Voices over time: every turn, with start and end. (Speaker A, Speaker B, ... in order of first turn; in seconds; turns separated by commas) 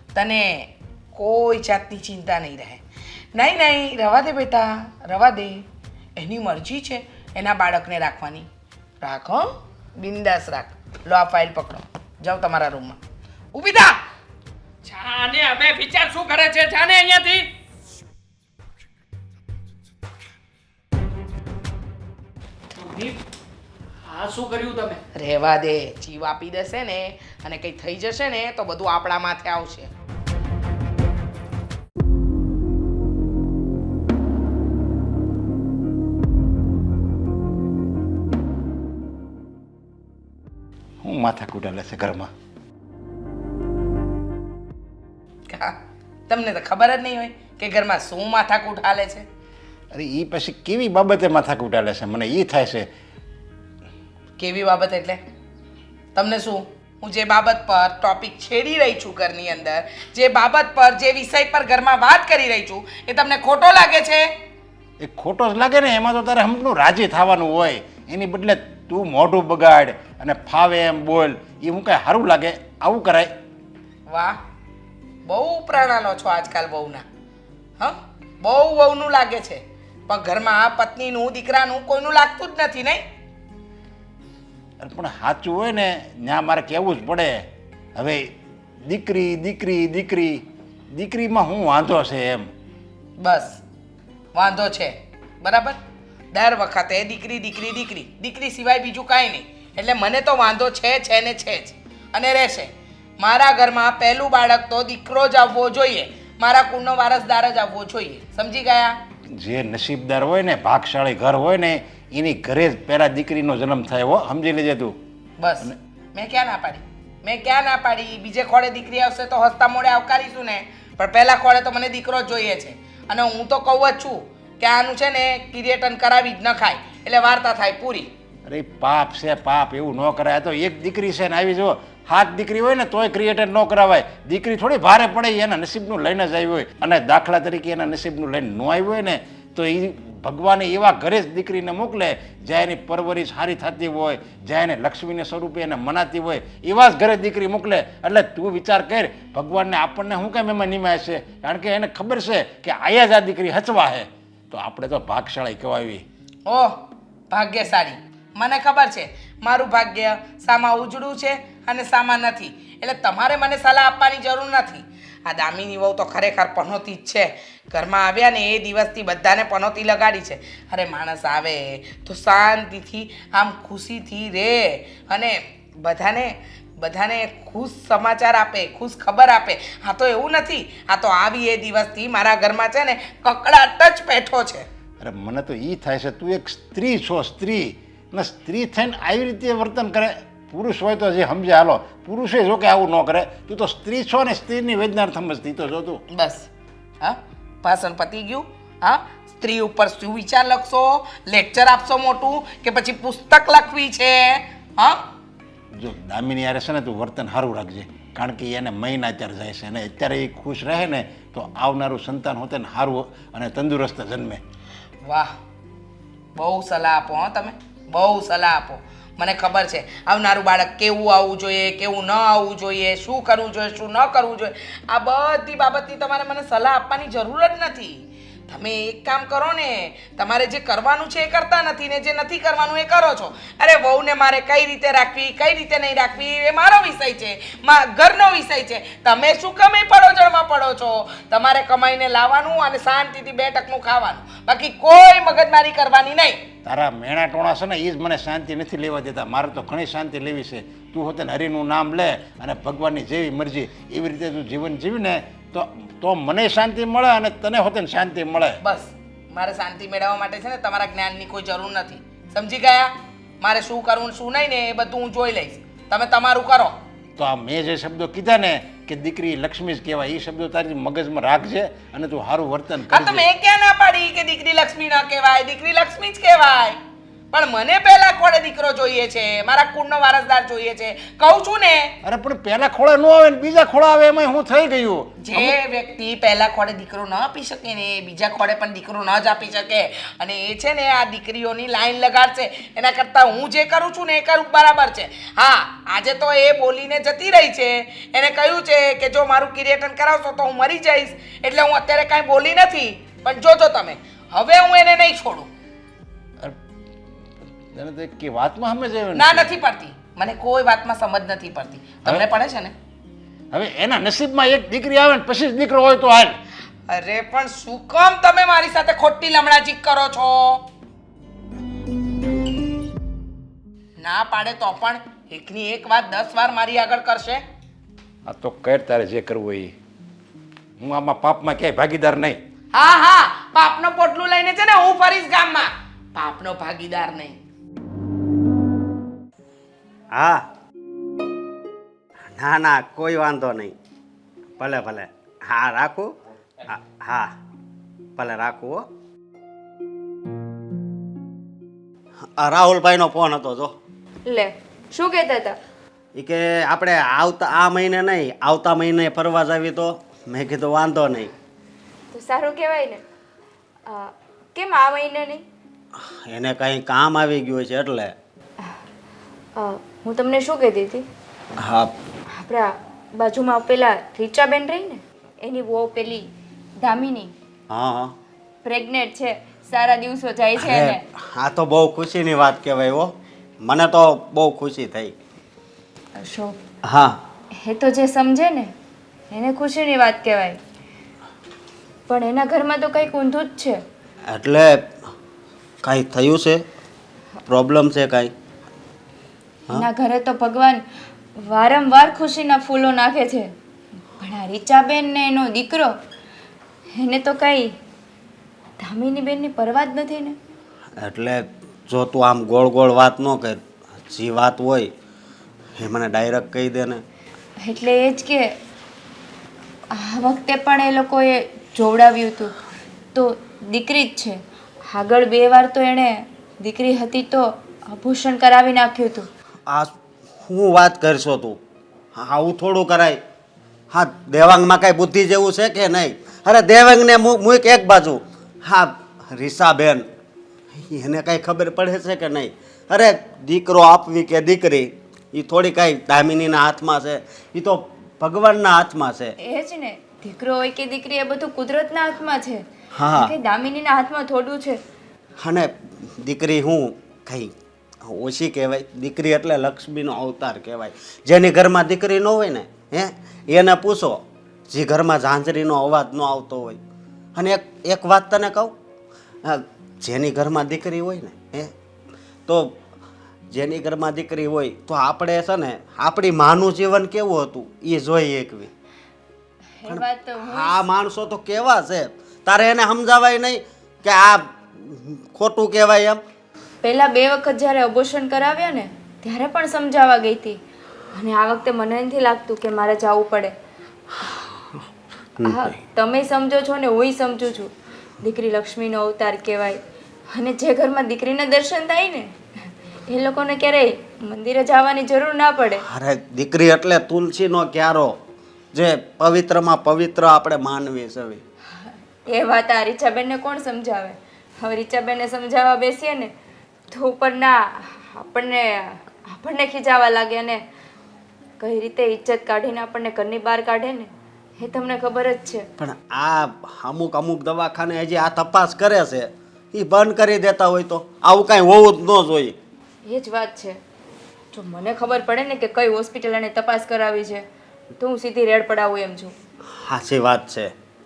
Speaker A: 0.1-2.8, Speaker A: 3.3-8.5, Speaker A: 9.0-13.0, Speaker A: 13.5-14.0, Speaker B: 14.8-17.5, Speaker B: 22.7-23.2, Speaker B: 24.0-25.0, Speaker A: 25.1-29.9, Speaker C: 41.0-42.3, Speaker A: 45.5-49.2, Speaker C: 49.9-52.9, Speaker A: 54.4-55.2, Speaker A: 56.1-64.3, Speaker C: 65.0-73.3, Speaker A: 74.1-74.4, Speaker A: 75.2-77.0, Speaker A: 77.8-83.0, Speaker C: 84.8-87.4, Speaker C: 88.0-88.2, Speaker C: 88.8-90.4, Speaker C: 90.9-92.5, Speaker A: 93.2-93.6, Speaker A: 94.3-95.8, Speaker A: 96.3-109.0, Speaker C: 109.4-115.0, Speaker A: 115.4-128.1, Speaker C: 128.5-156.0, Speaker A: 156.4-184.7, Speaker C: 185.0-196.0, Speaker A: 196.1-196.5, Speaker A: 197.0-205.0, Speaker C: 205.8-214.4, Speaker A: 215.0-215.3, Speaker A: 216.3-246.4, Speaker C: 246.6-258.6, Speaker A: 258.6-266.8, Speaker C: 267.2-273.2, Speaker A: 272.9-276.8, Speaker A: 277.3-281.9, Speaker C: 282.0-285.5, Speaker A: 285.2-305.5, Speaker C: 307.7-309.5, Speaker A: 309.1-312.7, Speaker C: 313.5-316.4, Speaker A: 316.9-320.6, Speaker A: 324.0-327.4, Speaker C: 328.3-329.7, Speaker C: 330.8-332.4, Speaker A: 332.7-337.4, Speaker D: 340.1-340.4, Speaker D: 342.3-343.7, Speaker D: 344.6-346.1, Speaker D: 346.6-347.3, Speaker D: 348.2-348.9, Speaker D: 352.4-353.7, Speaker E: 354.2-355.6, Speaker D: 356.1-361.3, Speaker E: 362.1-363.0, Speaker E: 363.9-365.4, Speaker D: 366.0-368.1, Speaker E: 369.6-371.1, Speaker D: 371.6-371.9, Speaker E: 372.4-376.3, Speaker E: 376.8-377.3, Speaker D: 377.7-378.1, Speaker E: 378.6-381.0, Speaker D: 380.6-385.1, Speaker E: 386.2-386.6, Speaker D: 386.9-387.2, Speaker E: 387.6-388.7, Speaker E: 389.3-390.6, Speaker E: 392.1-393.8, Speaker D: 394.3-394.9, Speaker D: 395.8-396.6, Speaker D: 397.5-398.3, Speaker E: 399.7-400.8, Speaker E: 401.4-403.5, Speaker E: 404.2-405.9, Speaker E: 406.9-407.7, Speaker E: 408.8-410.4, Speaker D: 411.0-414.9, Speaker D: 415.8-417.0, Speaker E: 417.6-418.6, Speaker E: 419.9-422.5, Speaker E: 423.1-429.3, Speaker D: 429.7-431.6, Speaker D: 432.1-433.2, Speaker D: 433.9-440.1, Speaker D: 440.7-449.3, Speaker E: 449.4-454.8, Speaker D: 452.9-453.3, Speaker D: 455.4-466.8, Speaker D: 467.4-468.7, Speaker D: 469.4-471.7, Speaker D: 472.5-472.8, Speaker D: 473.5-478.7, Speaker E: 479.8-480.8, Speaker D: 479.9-486.2, Speaker E: 486.8-490.6, Speaker E: 491.1-493.5, Speaker D: 495.4-495.8, Speaker E: 495.4-497.7, Speaker E: 498.2-499.8, Speaker E: 500.3-502.3, Speaker E: 503.1-505.8, Speaker D: 505.8-508.2, Speaker D: 508.7-511.4, Speaker E: 511.9-516.3, Speaker E: 516.9-520.6, Speaker E: 521.6-525.7, Speaker D: 525.8-532.6, Speaker E: 533.0-533.8, Speaker E: 534.5-537.5, Speaker E: 538.0-539.3, Speaker D: 539.8-540.7